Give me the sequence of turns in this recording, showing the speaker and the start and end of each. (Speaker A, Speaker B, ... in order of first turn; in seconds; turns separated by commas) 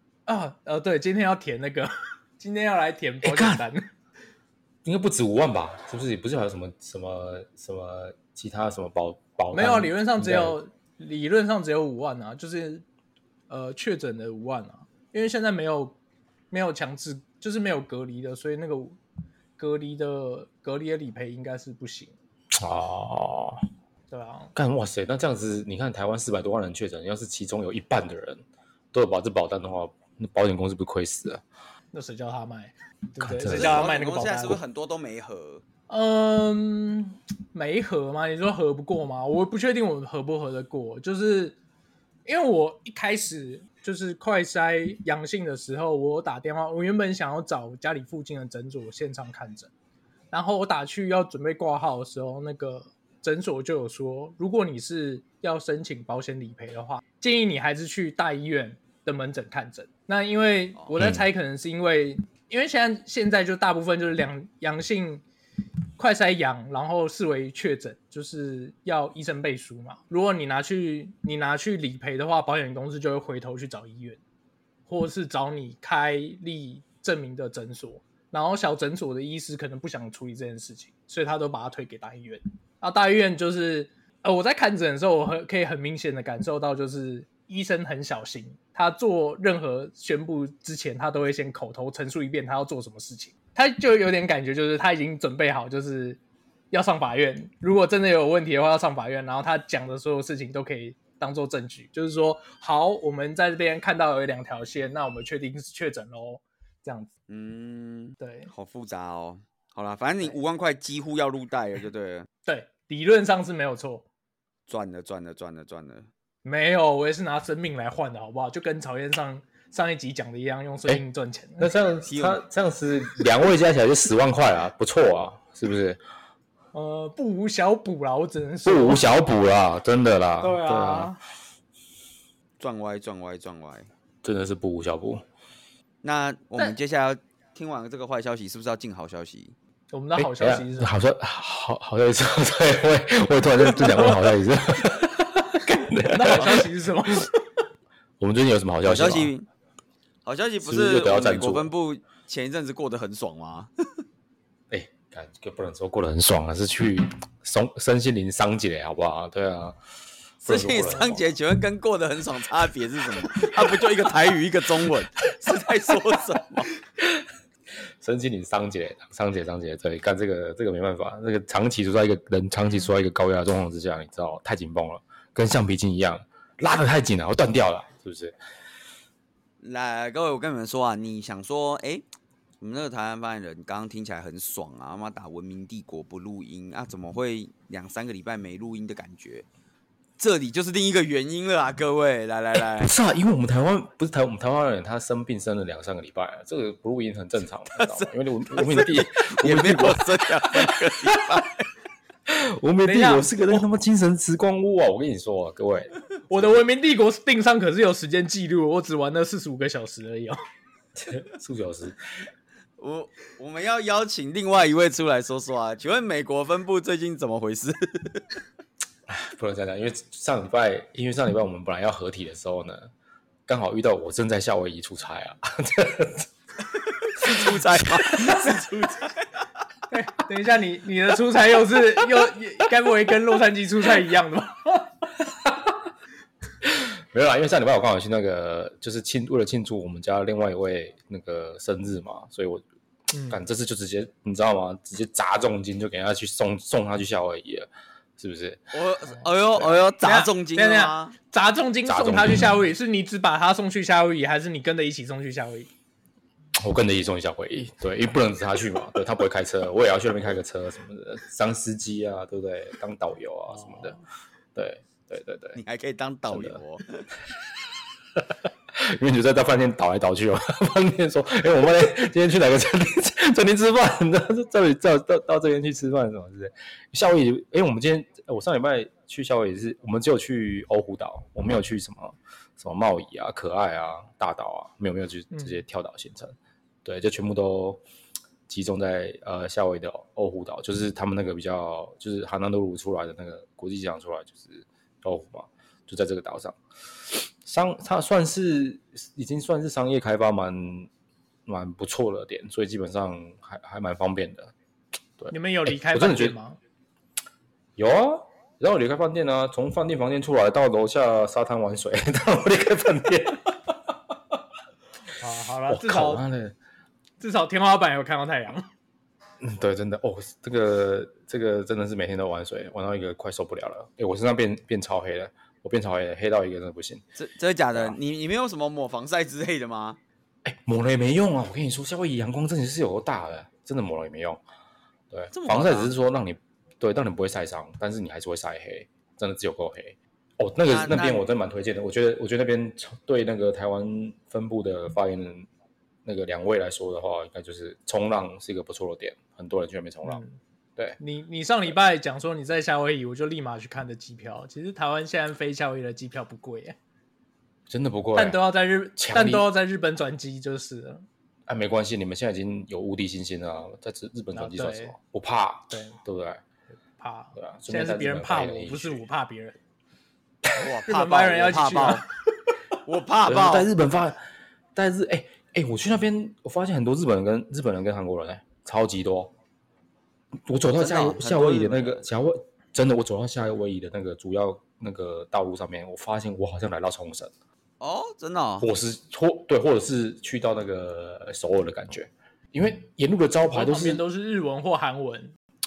Speaker A: 0.3-3.9, Speaker B: 3.2-3.6, Speaker B: 4.8-10.6, Speaker A: 9.5-12.8, Speaker A: 13.5-16.0, Speaker A: 16.5-19.0, Speaker A: 19.6-22.1, Speaker B: 22.5-23.6, Speaker A: 24.1-24.5, Speaker B: 24.5-31.4, Speaker A: 31.9-34.6, Speaker B: 33.2-33.9, Speaker C: 33.5-35.6, Speaker A: 35.9-41.6, Speaker A: 42.2-49.7, Speaker A: 50.3-65.2, Speaker B: 61.0-61.2, Speaker A: 66.0-74.2, Speaker A: 74.9-96.2, Speaker A: 96.7-107.1, Speaker C: 107.3-112.3, Speaker A: 108.2-108.5, Speaker A: 112.5-114.0, Speaker C: 114.7-116.1, Speaker A: 116.4-121.7, Speaker B: 121.6-126.0, Speaker C: 122.0-122.4, Speaker A: 126.7-129.1, Speaker B: 128.6-131.1, Speaker A: 130.4-131.2, Speaker C: 132.6-133.9, Speaker B: 134.2-135.2, Speaker C: 136.0-139.5, Speaker A: 139.9-140.9, Speaker B: 140.2-146.7, Speaker A: 143.8-144.1, Speaker A: 146.0-147.4, Speaker B: 148.2-149.3, Speaker C: 148.8-149.4, Speaker C: 150.2-153.7, Speaker B: 150.6-151.7, Speaker B: 154.7-159.8, Speaker B: 160.4-161.3, Speaker C: 160.4-166.7, Speaker B: 168.0-178.3, Speaker C: 179.6-182.0, Speaker C: 182.6-189.4, Speaker C: 190.2-192.9, Speaker B: 192.8-201.2, Speaker C: 197.8-201.7, Speaker B: 202.3-206.5, Speaker A: 202.8-203.6, Speaker A: 206.3-210.4, Speaker B: 210.9-212.0, Speaker C: 212.8-218.3, Speaker B: 219.1-222.9, Speaker B: 223.5-226.3, Speaker C: 226.8-229.4, Speaker B: 227.2-228.6, Speaker A: 229.9-234.9, Speaker B: 235.4-235.7, Speaker B: 236.6-242.6, Speaker A: 243.1-243.4, Speaker B: 243.3-248.7, Speaker C: 248.7-251.1, Speaker A: 250.0-255.7, Speaker B: 251.8-252.6, Speaker B: 256.6-264.0, Speaker A: 263.5-264.0, Speaker B: 264.5-265.6, Speaker C: 265.6-267.1, Speaker B: 266.3-266.6, Speaker B: 268.1-287.8, Speaker B: 288.5-300.9, Speaker B: 301.4-304.5, Speaker B: 305.2-306.3, Speaker A: 305.3-306.6, Speaker B: 307.8-313.4, Speaker A: 315.1-316.2, Speaker B: 315.7-316.6, Speaker A: 317.2-318.7, Speaker B: 319.4-327.0, Speaker C: 327.1-330.0, Speaker B: 330.4-334.4, Speaker B: 335.1-345.5, Speaker C: 335.3-335.9, Speaker C: 340.7-341.2, Speaker B: 346.0-350.2, Speaker A: 350.0-350.4, Speaker A: 351.0-356.8, Speaker B: 357.7-358.4, Speaker A: 358.1-361.0, Speaker B: 358.9-359.5, Speaker B: 361.5-366.4, Speaker A: 364.3-364.9, Speaker A: 365.7-366.0, Speaker A: 367.0-369.6, Speaker B: 367.4-369.0, Speaker C: 370.6-372.0, Speaker A: 370.8-372.1, Speaker C: 372.8-373.7, Speaker B: 373.2-374.2, Speaker B: 374.7-379.3, Speaker B: 380.4-387.3, Speaker C: 380.8-382.0, Speaker C: 387.8-388.7, Speaker B: 388.6-394.0, Speaker A: 393.5-395.3